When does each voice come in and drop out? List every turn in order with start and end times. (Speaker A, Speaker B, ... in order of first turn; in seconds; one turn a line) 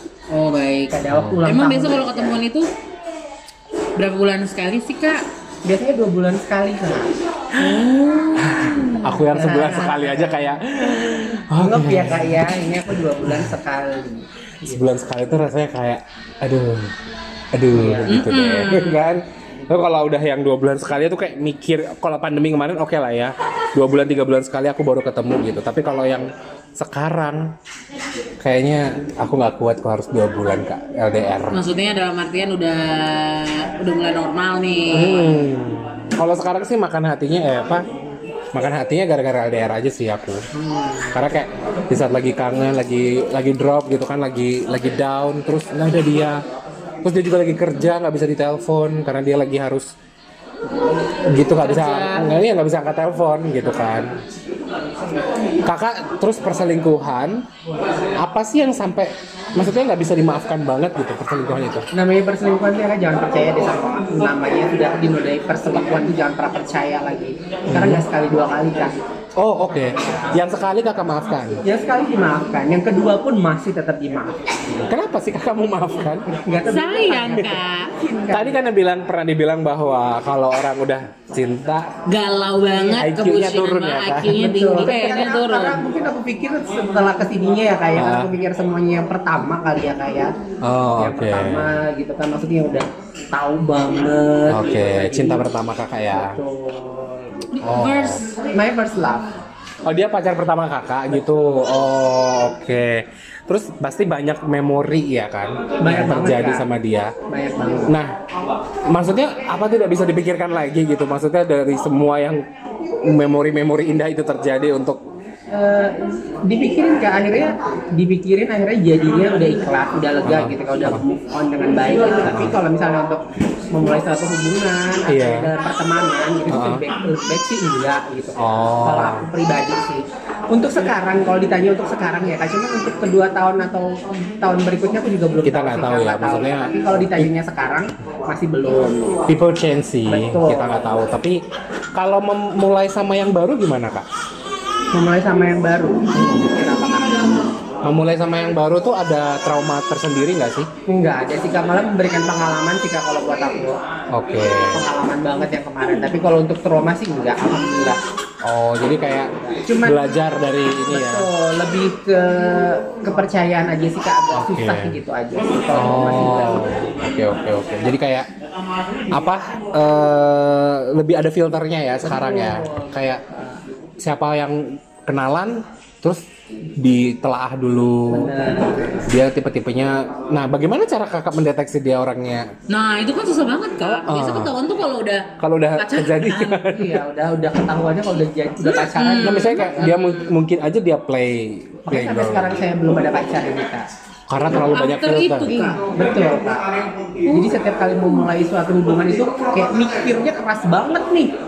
Speaker A: 0.3-2.7
Speaker B: 0.9-2.4
Speaker C: 1.1-1.4
Speaker A: 4.0-5.2
Speaker B: 5.6-7.1
Speaker A: 7.6-9.3
Speaker C: 8.4-12.6
Speaker B: 8.5-10.6
Speaker B: 11.6-14.9
Speaker C: 13.2-13.6
Speaker C: 14.7-16.9
Speaker C: 17.5-27.5
Speaker B: 17.7-18.2
Speaker A: 18.1-19.0
Speaker C: 28.4-31.6
Speaker A: 31.5-35.4
Speaker C: 34.9-37.9
Speaker C: 38.5-40.5
Speaker B: 40.6-41.1
Speaker C: 41.1-46.4
Speaker C: 47.0-49.9
Speaker C: 51.3-54.1
Speaker A: 51.6-52.4
Speaker C: 55.6-57.4
Speaker C: 58.2-61.9
Speaker B: 61.9-69.0
Speaker C: 67.7-68.0
Speaker C: 69.4-71.6
Speaker B: 71.7-74.4
Speaker C: 74.9-76.3
Speaker B: 76.4-78.6
Speaker A: 76.7-77.9
Speaker C: 78.3-81.9
Speaker A: 82.1-85.8
Speaker C: 82.9-84.4
Speaker B: 84.2-90.3
Speaker C: 88.0-88.3
Speaker C: 90.6-91.7
Speaker B: 91.0-95.5
Speaker C: 94.5-96.4
Speaker B: 96.1-97.4
Speaker A: 97.5-98.3
Speaker C: 97.6-98.2
Speaker B: 98.5-99.3
Speaker C: 99.8-107.1
Speaker B: 105.8-106.7
Speaker B: 107.3-107.9
Speaker C: 107.9-108.2
Speaker C: 108.9-112.4
Speaker C: 113.0-115.0
Speaker B: 115.5-123.2
Speaker C: 120.2-121.0
Speaker C: 122.2-122.5
Speaker B: 123.7-139.2
Speaker C: 125.1-125.5
Speaker C: 126.5-126.8
Speaker C: 128.4-129.3
Speaker C: 135.4-137.3
Speaker C: 139.3-141.4
Speaker B: 140.1-140.8
Speaker C: 141.9-144.1
Speaker B: 144.9-147.2
Speaker C: 146.2-146.5
Speaker C: 147.8-150.7
Speaker B: 150.9-153.8
Speaker C: 154.1-154.8
Speaker B: 154.7-158.0
Speaker C: 158.4-161.3
Speaker B: 159.6-160.1
Speaker B: 160.9-166.7
Speaker C: 164.3-165.0
Speaker C: 165.7-168.3
Speaker C: 169.1-173.2
Speaker B: 172.1-173.6
Speaker C: 174.0-176.2
Speaker C: 176.8-178.5
Speaker B: 178.1-179.1
Speaker C: 179.1-182.5
Speaker A: 182.7-186.6
Speaker C: 183.8-184.6
Speaker C: 185.4-187.0
Speaker B: 186.7-189.8
Speaker A: 188.6-190.3
Speaker C: 189.2-192.6
Speaker B: 191.9-193.9
Speaker C: 194.3-195.5
Speaker A: 194.7-195.8
Speaker B: 195.4-196.8
Speaker B: 197.3-201.3